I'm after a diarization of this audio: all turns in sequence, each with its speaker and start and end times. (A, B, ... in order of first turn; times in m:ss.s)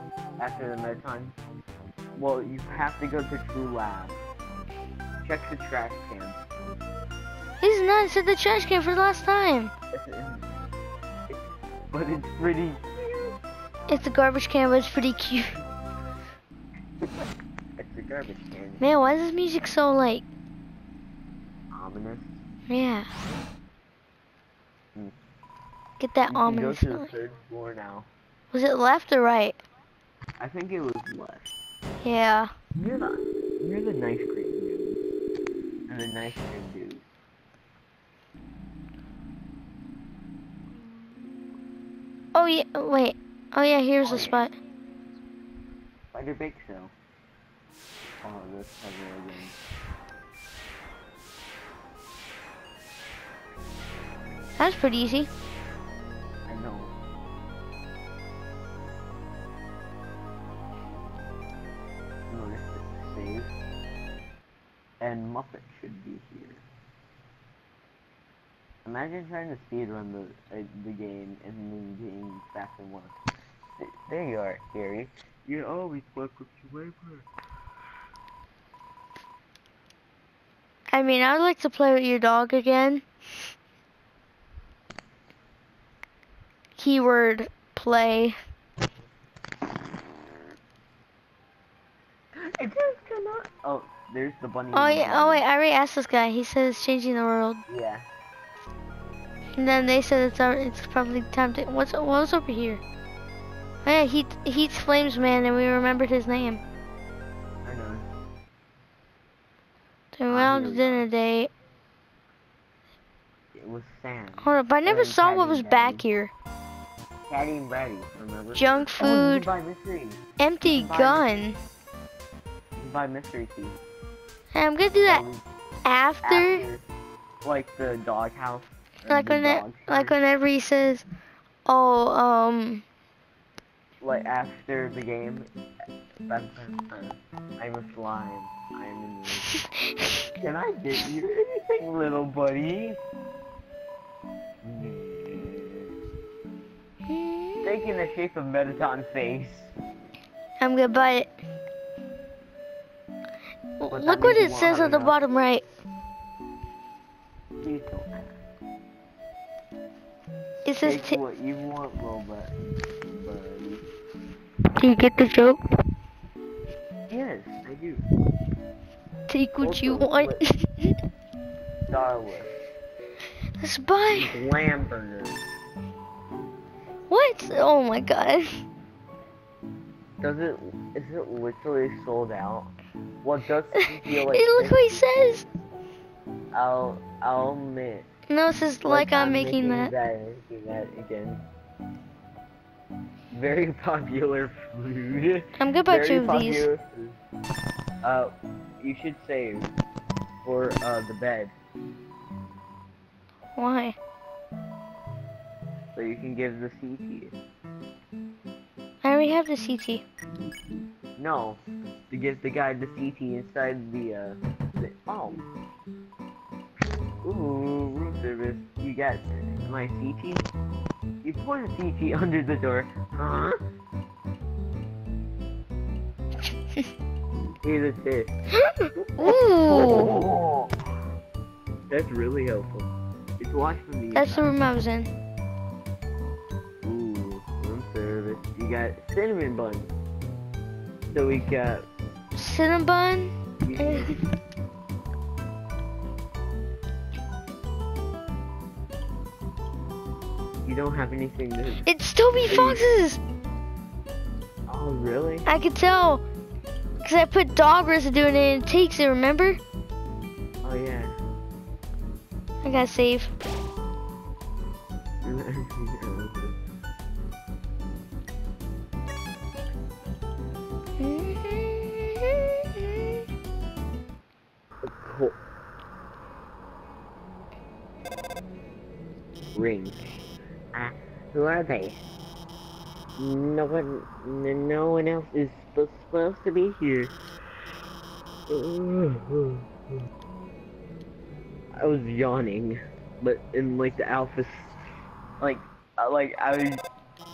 0:00.4-0:01.4 A
0:02.2-0:04.2 A
0:05.2-0:06.4 A
0:07.6-0:09.7 B
0:09.9-0:10.5 A
0:11.3-0:13.4 A
0:13.9-0:15.6 B
0:17.8-0:18.8 A
0:18.8-0:20.2 B
0:21.7-0:22.4 A
0:22.7-0:23.1 B
0:26.0-0:27.1 B
0:26.3-0:28.1 A
0:28.5-0:29.6 B
0:30.4-0:31.5 A
0:32.0-0:32.5 B
0:32.7-0:35.0 A
0:35.9-0:37.0 A
0:42.3-0:44.5 B
0:44.0-0:44.4 A
0:46.1-0:46.9 A
0:48.2-0:49.6 A
0:54.6-0:55.3 B
0:56.5-0:56.9 A
1:02.3-1:03.5 A
1:05.0-1:06.6 A
1:08.8-1:13.1 A
1:13.8-1:17.2 A
1:20.9-1:23.0 B
1:26.8-1:28.4 B
1:32.3-1:35.4 A
1:34.7-1:37.6 B
1:37.7-1:38.0 A
1:39.6-1:42.8 B
1:43.8-1:46.6 B
1:47.6-1:48.0 A
1:50.1-1:51.5 B
1:50.3-1:51.1 A
1:53.5-1:56.0 A
1:54.4-1:56.3 B
1:57.3-2:01.3 A
1:58.5-1:59.5 B
2:00.4-2:01.6 B
2:02.8-2:03.8 A
2:04.5-2:05.2 B
2:05.1-2:05.4 A
2:05.8-2:06.6 B
2:06.2-2:06.8 A
2:07.4-2:10.2 A
2:09.1-2:11.0 B
2:11.6-2:12.8 B
2:14.0-2:15.5 A
2:16.3-2:19.5 A
2:19.9-2:20.2 B
2:20.4-2:23.0 A
2:24.6-2:25.9 A
2:27.1-2:27.7 B
2:27.6-2:29.7 A
2:30.6-2:31.3 B
2:33.8-2:35.6 B
2:33.9-2:35.2 A
2:37.6-2:38.4 A
2:40.6-2:41.2 B
2:40.8-2:42.5 A
2:43.0-2:43.8 A
2:44.8-2:45.6 B
2:47.1-2:48.0 A
2:49.3-2:51.0 B
2:49.6-2:50.4 A
2:51.9-2:52.5 A
2:53.6-2:54.4 B
2:54.1-2:55.4 A
2:57.1-2:58.6 B
3:00.2-3:02.7 A
3:03.2-3:05.1 A
3:04.0-3:05.4 B
3:06.5-3:08.1 A
3:08.3-3:09.9 B
3:08.8-3:11.4 A
3:13.3-3:17.2 A
3:15.6-3:16.7 B
3:18.0-3:19.7 A
3:20.4-3:21.5 A
3:23.5-3:24.0 B
3:26.0-3:27.3 A
3:29.0-3:30.0 B
3:31.2-3:35.4 A
3:37.2-3:40.5 A
3:41.2-3:43.6 A
3:47.6-3:48.3 A
3:48.5-3:50.1 B
3:49.0-3:50.7 A
3:51.9-3:54.5 A
3:54.1-3:55.1 B
3:56.8-3:59.9 A
4:01.1-4:01.8 A
4:02.4-4:04.2 B
4:03.6-4:04.2 A
4:10.6-4:11.8 A
4:11.8-4:13.2 B
4:12.4-4:12.9 A
4:14.7-4:15.5 A
4:15.5-4:16.2 B
4:17.0-4:19.6 B
4:20.6-4:21.2 A
4:22.6-4:23.3 B
4:25.2-4:26.6 A
4:31.0-4:33.2 B
4:34.8-4:35.4 A
4:39.6-4:40.2 A
4:40.7-4:42.1 A
4:43.2-4:47.1 A
4:48.5-4:49.6 A
4:51.8-4:54.7 A
4:55.4-4:56.8 A